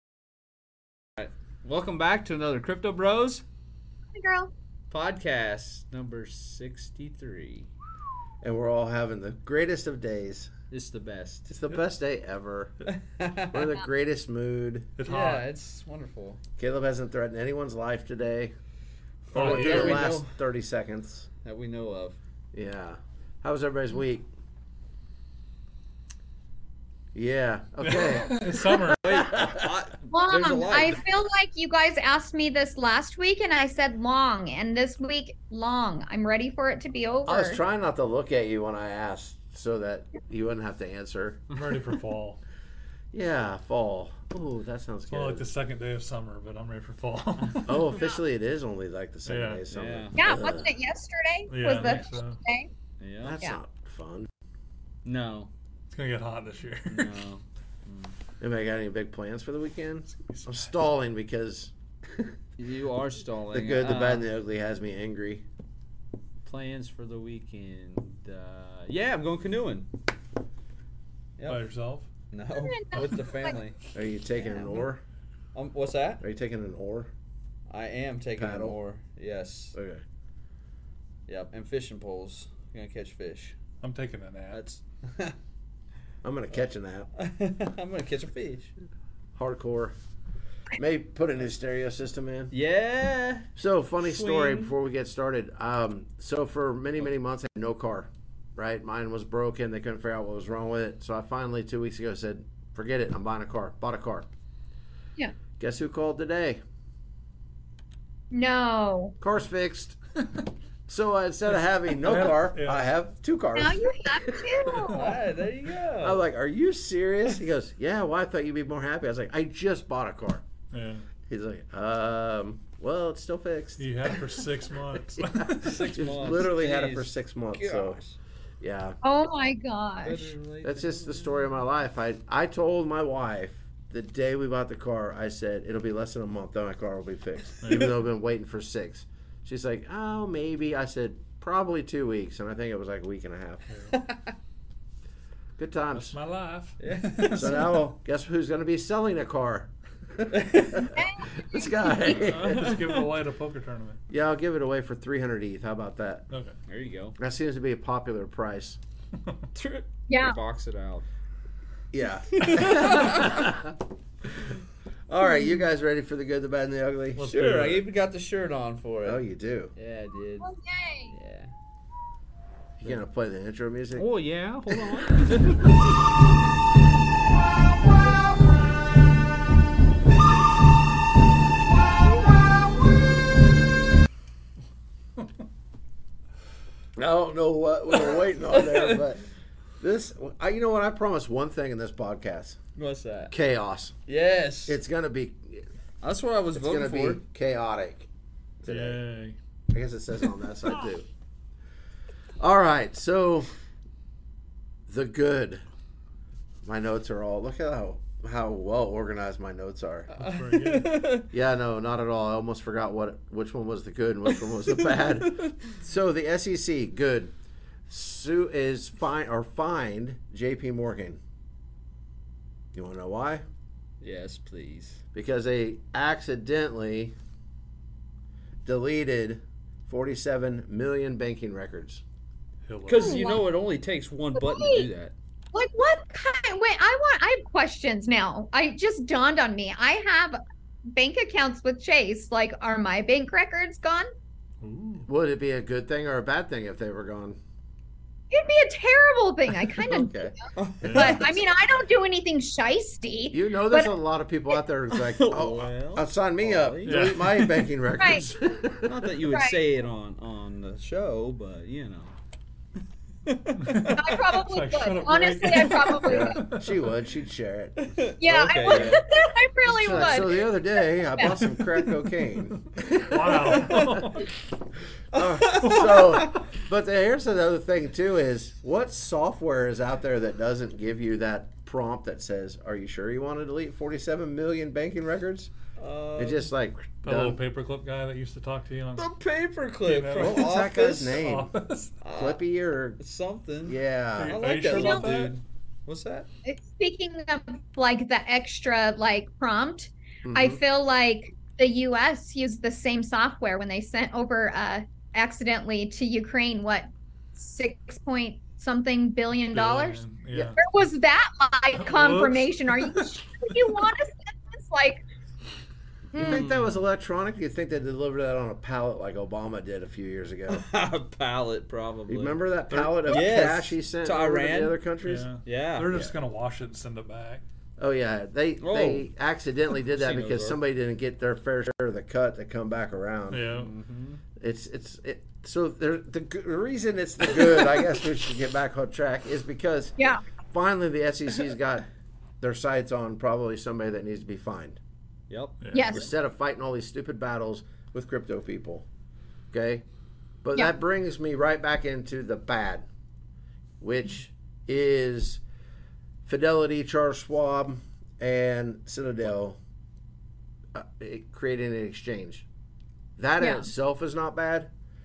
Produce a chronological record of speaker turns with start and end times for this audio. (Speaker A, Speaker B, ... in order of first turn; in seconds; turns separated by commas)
Speaker A: 1.2-3.4, Speaker B: 4.1-4.5, Speaker A: 4.9-7.7, Speaker C: 8.4-10.5, Speaker A: 10.7-11.4, Speaker C: 11.4-12.8, Speaker A: 12.8-13.7, Speaker C: 13.5-14.9, Speaker D: 15.0-15.4, Speaker A: 15.1-16.4, Speaker C: 16.6-18.5, Speaker C: 19.3-21.3, Speaker A: 19.3-20.4, Speaker D: 19.3-20.1, Speaker A: 21.4-22.2, Speaker C: 22.5-24.3, Speaker C: 27.1-29.7, Speaker D: 27.8-29.2, Speaker A: 29.0-31.0, Speaker B: 30.1-37.6, Speaker C: 37.2-41.4, Speaker D: 41.5-42.4, Speaker C: 43.1-45.5, Speaker D: 45.1-47.9, Speaker C: 47.6-50.7, Speaker D: 49.2-49.6, Speaker A: 49.7-50.1, Speaker B: 50.1-52.7, Speaker D: 51.5-52.4, Speaker A: 53.0-53.4, Speaker C: 53.2-54.3, Speaker A: 55.0-55.5, Speaker D: 55.9-57.2, Speaker A: 56.9-58.1, Speaker C: 58.4-62.3, Speaker D: 60.3-60.6, Speaker A: 62.6-64.3, Speaker C: 63.5-65.4, Speaker A: 66.5-69.9, Speaker A: 71.4-71.6, Speaker D: 71.5-72.1, Speaker A: 72.3-73.8, Speaker B: 72.6-73.6, Speaker C: 73.9-75.0, Speaker A: 74.4-74.9, Speaker A: 75.5-76.2, Speaker C: 76.2-77.1, Speaker A: 77.7-79.8, Speaker C: 78.3-78.8, Speaker C: 79.7-80.0, Speaker A: 81.3-83.5, Speaker D: 83.8-84.6, Speaker A: 84.5-85.3, Speaker C: 86.2-87.1, Speaker A: 87.2-88.7, Speaker C: 89.3-89.9, Speaker C: 90.7-92.5, Speaker A: 92.5-93.5, Speaker C: 93.5-104.3, Speaker A: 94.0-94.7, Speaker C: 105.6-106.6, Speaker B: 108.3-109.1, Speaker C: 109.2-110.0, Speaker C: 110.9-114.6, Speaker D: 112.0-112.8, Speaker B: 113.5-115.2, Speaker A: 114.9-116.2, Speaker C: 116.0-120.4, Speaker D: 120.7-121.0, Speaker C: 121.3-124.4, Speaker D: 123.8-125.9, Speaker C: 125.1-128.0, Speaker A: 125.6-128.2, Speaker C: 128.6-129.0, Speaker B: 129.0-130.3, Speaker A: 130.0-131.6, Speaker C: 130.6-143.6, Speaker D: 137.6-138.0, Speaker A: 143.9-144.3, Speaker C: 145.6-146.2, Speaker D: 145.9-147.7, Speaker A: 146.8-147.6, Speaker C: 147.3-152.7, Speaker A: 150.3-150.8, Speaker B: 150.9-151.9, Speaker D: 152.1-154.0, Speaker A: 152.3-153.1, Speaker C: 154.1-156.2, Speaker D: 156.3-156.6, Speaker A: 156.7-157.2, Speaker C: 157.2-158.8, Speaker A: 159.5-161.0, Speaker B: 160.1-160.4, Speaker C: 161.9-163.7, Speaker A: 162.3-163.5, Speaker C: 165.1-167.8, Speaker D: 167.2-167.8, Speaker A: 167.4-169.2, Speaker C: 169.0-169.7, Speaker A: 169.8-170.5, Speaker B: 170.4-171.1, Speaker A: 171.1-171.5, Speaker C: 172.8-174.1, Speaker A: 173.9-175.8, Speaker C: 186.9-189.2, Speaker A: 188.5-189.0, Speaker C: 189.8-192.6, Speaker A: 192.8-193.3, Speaker C: 193.3-193.9, Speaker A: 194.1-194.8, Speaker C: 194.7-195.7, Speaker A: 196.0-197.2, Speaker C: 196.5-198.1, Speaker C: 198.6-199.0, Speaker D: 198.7-199.4, Speaker C: 199.7-201.1, Speaker C: 202.4-203.5, Speaker C: 204.9-205.6, Speaker C: 206.6-210.1, Speaker D: 210.2-211.0, Speaker A: 210.2-211.3, Speaker C: 211.3-217.3, Speaker A: 214.9-215.6, Speaker C: 217.9-221.2, Speaker C: 222.7-223.4, Speaker A: 224.0-225.0, Speaker C: 225.1-227.1, Speaker C: 228.6-232.0, Speaker D: 232.7-233.4, Speaker A: 232.8-235.1, Speaker B: 233.0-233.4, Speaker B: 234.3-234.9, Speaker B: 235.5-240.4, Speaker B: 240.9-244.1, Speaker D: 244.6-245.1, Speaker C: 245.1-247.4, Speaker B: 248.3-250.4, Speaker C: 249.8-250.3, Speaker A: 250.5-251.4, Speaker D: 250.8-251.2, Speaker B: 250.9-254.0, Speaker C: 253.3-258.8, Speaker A: 254.9-257.2, Speaker D: 256.8-257.7, Speaker B: 258.0-258.2, Speaker A: 258.8-262.1, Speaker B: 259.3-259.6, Speaker A: 263.2-264.2, Speaker D: 263.6-266.7, Speaker B: 263.9-266.4, Speaker A: 265.5-265.8, Speaker C: 266.0-267.9, Speaker A: 267.8-269.0, Speaker B: 268.2-271.4, Speaker C: 268.7-269.0, Speaker C: 269.6-272.7, Speaker A: 272.9-273.9, Speaker D: 273.0-274.3, Speaker C: 273.7-274.1, Speaker C: 275.1-285.5, Speaker A: 275.1-276.4, Speaker A: 285.8-286.5, Speaker C: 286.2-287.4, Speaker D: 287.0-289.1, Speaker A: 288.9-291.2, Speaker D: 289.8-291.9, Speaker C: 290.1-291.5, Speaker A: 292.0-292.4, Speaker C: 292.1-293.0, Speaker A: 293.0-296.3, Speaker C: 293.6-294.4, Speaker D: 294.2-295.3, Speaker B: 294.7-295.1, Speaker B: 296.4-310.0, Speaker C: 300.2-300.6, Speaker D: 309.5-310.6, Speaker B: 310.6-315.0, Speaker D: 311.8-313.2, Speaker B: 316.1-316.5, Speaker C: 316.1-320.6, Speaker A: 316.1-316.8, Speaker A: 320.5-324.8, Speaker C: 322.1-325.3, Speaker D: 325.0-327.4, Speaker A: 325.4-326.1, Speaker C: 327.8-333.4, Speaker A: 328.6-329.1, Speaker A: 329.7-330.6, Speaker D: 333.3-333.7, Speaker A: 333.5-334.2, Speaker C: 334.4-339.9, Speaker C: 340.5-341.9, Speaker C: 342.4-344.8, Speaker A: 345.3-346.0, Speaker D: 345.6-345.9, Speaker B: 345.7-346.1, Speaker C: 345.9-348.9, Speaker C: 349.5-349.8, Speaker C: 350.4-352.9, Speaker C: 353.8-355.4, Speaker C: 356.2-359.6, Speaker C: 360.7-362.4, Speaker C: 363.2-364.7, Speaker B: 363.4-363.7